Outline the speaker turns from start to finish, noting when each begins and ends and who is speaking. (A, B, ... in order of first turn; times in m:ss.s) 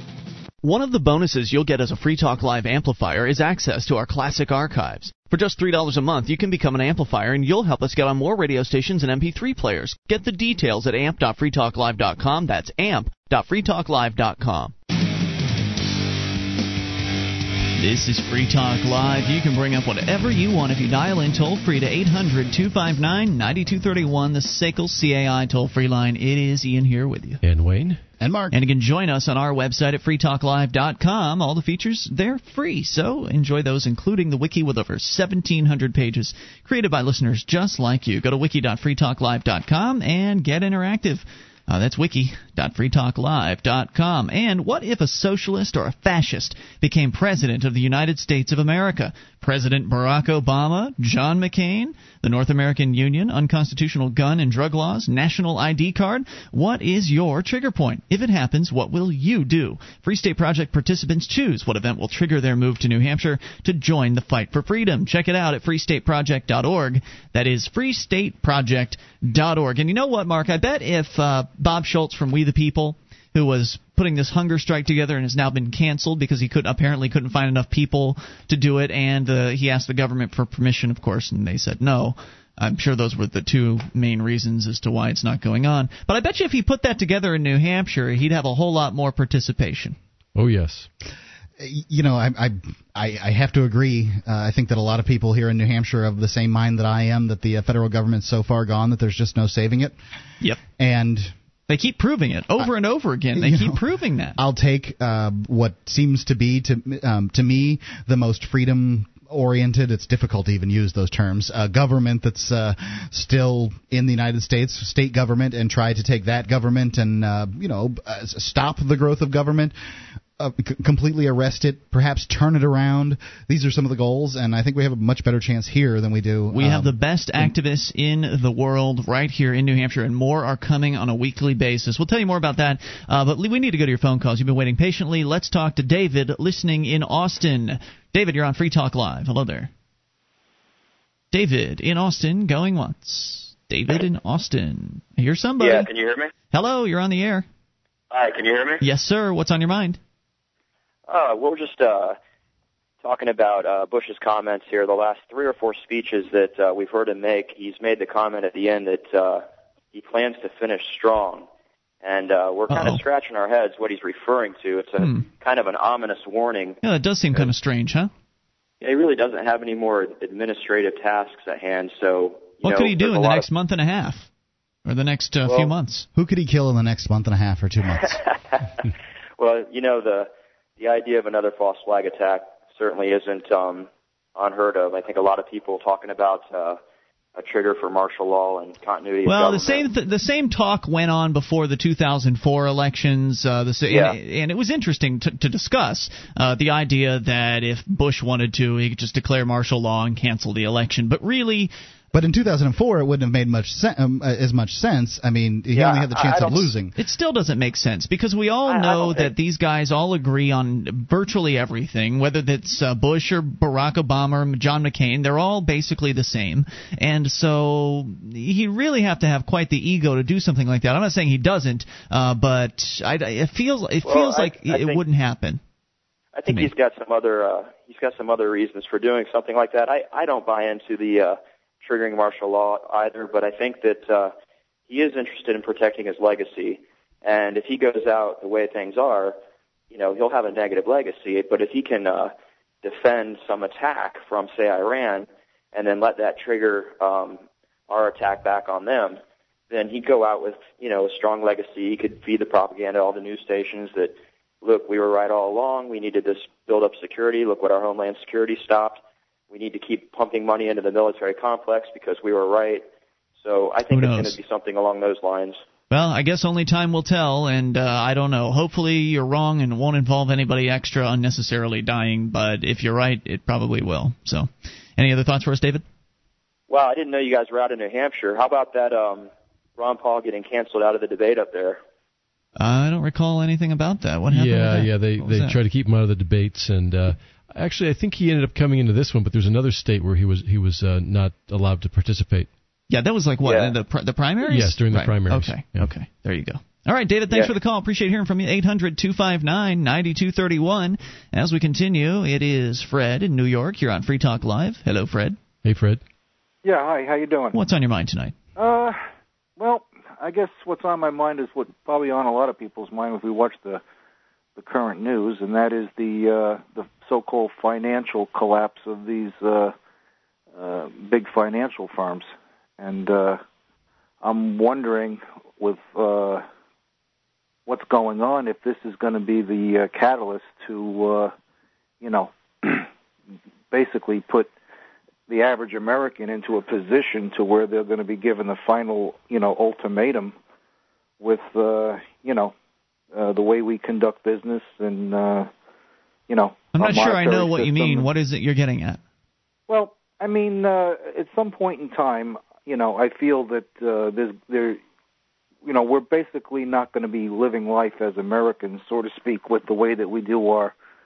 0:00.6-0:14.7 A
0:17.8-0:27.4 A
0:27.4-0:28.0 B
0:28.2-0:28.5 C
0:28.5-1:30.0 A
1:30.4-1:30.9 B
1:31.6-1:40.0 C
1:40.8-1:41.3 C
1:41.7-1:44.4 A
1:43.4-1:43.8 C
1:44.4-1:59.7 C
2:00.4-2:06.9 C
2:06.5-2:19.7 A
2:21.3-2:25.9 A
2:25.6-2:26.3 D
2:26.5-2:27.4 A
2:28.1-2:28.8 D
2:28.8-2:30.0 A
2:31.1-2:32.2 D
2:33.0-2:39.4 D
2:39.9-2:41.4 D
2:42.0-2:46.8 D
2:42.7-2:43.0 A
2:46.8-2:48.1 A
2:48.8-2:53.4 D
2:52.6-2:54.3 A
2:54.9-2:56.0 A
2:55.5-2:55.7 D
2:56.1-2:58.2 C
2:58.1-2:58.8 D
2:59.4-3:06.8 D
3:07.4-3:09.9 D
3:09.2-3:21.7 A
3:13.9-3:14.2 D
3:22.1-3:26.9 C
3:25.7-3:26.7 D
3:27.0-3:45.6 A
3:28.6-3:29.3 D
3:44.0-3:45.0 D
3:46.4-3:54.3 D
3:54.9-3:59.4 D
3:59.9-4:09.2 D
4:09.7-4:22.8 D
4:23.4-4:25.6 D
4:23.9-4:24.4 A
4:25.9-4:35.8 A
4:36.7-4:41.8 D
4:42.6-4:45.6 A
4:44.3-4:52.5 B
4:52.9-5:05.4 A
4:53.4-4:53.7 D
4:54.4-4:55.9 B
5:05.6-5:06.0 B
5:06.6-5:07.5 E
5:07.5-5:08.4 A
5:08.6-5:09.0 E
5:09.6-5:13.8 E
5:14.6-5:19.7 E
5:20.5-5:23.4 E
5:24.2-5:26.4 E
5:27.7-5:31.3 E
5:32.0-5:32.9 E
5:33.7-5:34.5 E
5:35.3-5:40.4 E
5:41.2-5:42.5 E
5:43.1-5:45.5 E
5:46.3-5:48.1 E
5:46.7-5:49.0 A
5:49.7-5:54.8 E
5:55.6-6:00.7 E